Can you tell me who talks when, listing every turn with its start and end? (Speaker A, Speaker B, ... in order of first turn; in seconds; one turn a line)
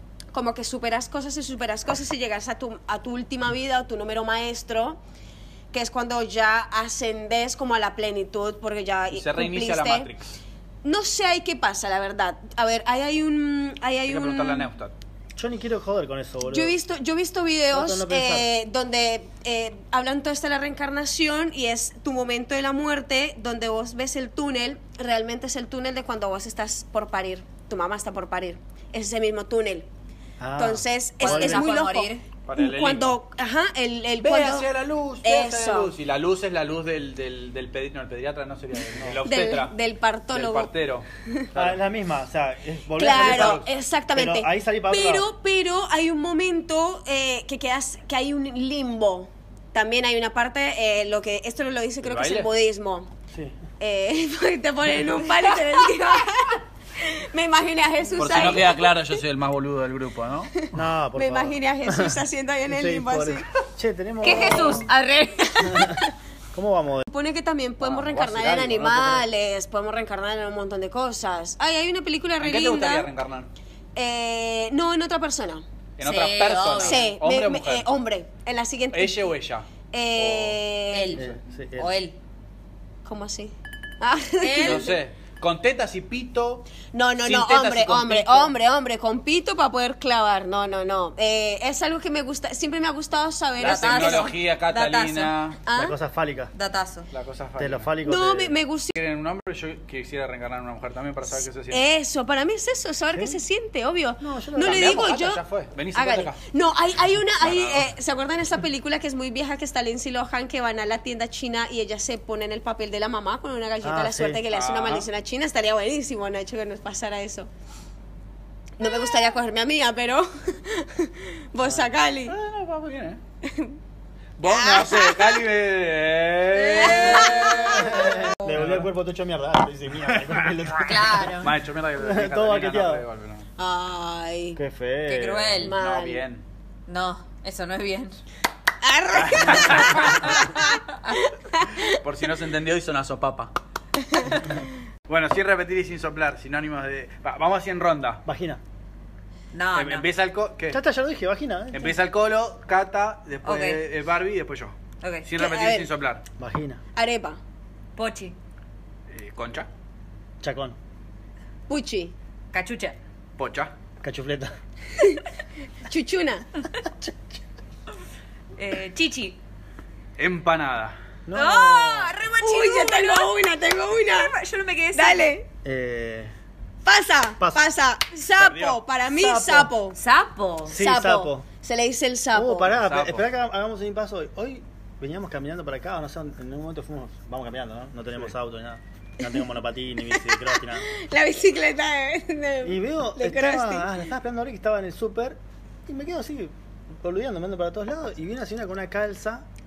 Speaker A: 0.3-5.0
Speaker A: 5.7-10.1
Speaker B: 9.1-10.4
Speaker A: 10.8-14.7
Speaker B: 14.1-14.9
Speaker C: 15.4-16.7
Speaker A: 16.5-29.9
Speaker C: 17.7-18.5
Speaker C: 30.4-31.8
Speaker A: 30.6-34.7
Speaker D: 31.2-32.2
Speaker B: 32.5-33.2
Speaker B: 34.2-39.8
Speaker A: 35.2-35.9
Speaker A: 39.2-40.7
Speaker B: 40.3-41.8
Speaker C: 41.5-45.3
Speaker A: 43.0-53.1
Speaker B: 43.0-43.7
Speaker B: 52.0-52.5
Speaker C: 53.3-53.6
Speaker A: 53.8-59.0
Speaker B: 58.2-60.7
Speaker C: 60.7-64.9
Speaker A: 61.1-63.5
Speaker D: 64.2-65.9
Speaker A: 64.2-64.9
Speaker A: 65.6-66.1
Speaker C: 65.7-67.0
Speaker A: 67.1-73.1
Speaker C: 67.8-69.3
Speaker B: 72.4-73.5
Speaker A: 74.0-75.6
Speaker B: 76.0-77.9
Speaker D: 76.0-77.0
Speaker A: 76.7-79.2
Speaker B: 78.9-80.6
Speaker A: 79.9-81.2
Speaker D: 80.9-81.2
Speaker C: 81.2-81.9
Speaker D: 81.8-82.2
Speaker A: 83.0-85.0
Speaker D: 84.4-84.9
Speaker B: 84.6-86.7
Speaker A: 86.9-94.3
Speaker B: 87.2-88.5
Speaker B: 93.6-95.6
Speaker D: 93.6-95.3
Speaker A: 95.7-96.0
Speaker C: 95.8-96.5
Speaker D: 96.5-97.1
Speaker B: 97.1-97.9
Speaker C: 97.6-98.5
Speaker A: 98.0-99.0
Speaker B: 98.9-101.8
Speaker A: 101.7-105.4
Speaker C: 103.1-103.4
Speaker C: 104.2-105.1
Speaker B: 104.6-106.4
Speaker A: 105.9-117.5
Speaker B: 107.4-107.9
Speaker C: 113.8-114.4
Speaker B: 114.5-115.1
Speaker A: 118.8-122.3
Speaker C: 121.6-121.9
Speaker B: 122.3-123.2
Speaker A: 123.4-123.8
Speaker B: 124.4-128.9
Speaker A: 124.4-125.4
Speaker A: 126.6-127.9
Speaker D: 127.0-127.6
Speaker C: 127.7-133.1
Speaker B: 130.1-130.6
Speaker D: 130.8-131.5
Speaker B: 131.4-133.5
Speaker A: 133.6-134.6
Speaker C: 134.6-135.7
Speaker D: 135.1-135.8
Speaker A: 135.6-136.2
Speaker B: 135.6-136.4
Speaker D: 136.9-138.2
Speaker A: 138.8-141.9
Speaker B: 139.1-140.6
Speaker B: 141.8-143.5
Speaker A: 144.2-144.4
Speaker B: 145.1-148.2
Speaker C: 148.2-148.6
Speaker D: 149.5-150.1
Speaker B: 149.7-150.8
Speaker C: 150.7-152.0
Speaker B: 151.7-154.7
Speaker D: 153.4-153.8
Speaker D: 155.0-155.3
Speaker B: 155.3-156.2
Speaker A: 155.4-155.9
Speaker C: 156.4-156.8
Speaker A: 156.9-157.4
Speaker D: 158.0-158.3
Speaker B: 159.1-159.7
Speaker C: 160.4-160.8
Speaker A: 161.7-162.1
Speaker D: 162.5-163.0
Speaker B: 163.4-163.7
Speaker C: 164.0-164.5
Speaker A: 165.9-166.5
Speaker D: 168.6-169.4
Speaker B: 170.2-171.0
Speaker C: 171.3-172.2
Speaker D: 171.3-173.3
Speaker A: 172.4-174.3
Speaker D: 174.1-175.3
Speaker A: 174.9-175.5
Speaker C: 175.6-176.3
Speaker A: 176.8-180.0
Speaker B: 178.4-178.8
Speaker C: 179.2-179.7
Speaker D: 179.9-180.8
Speaker C: 180.7-181.4
Speaker A: 180.7-182.8
Speaker C: 182.3-190.9
Speaker B: 182.8-183.3
Speaker A: 190.1-193.9
Speaker C: 192.6-199.4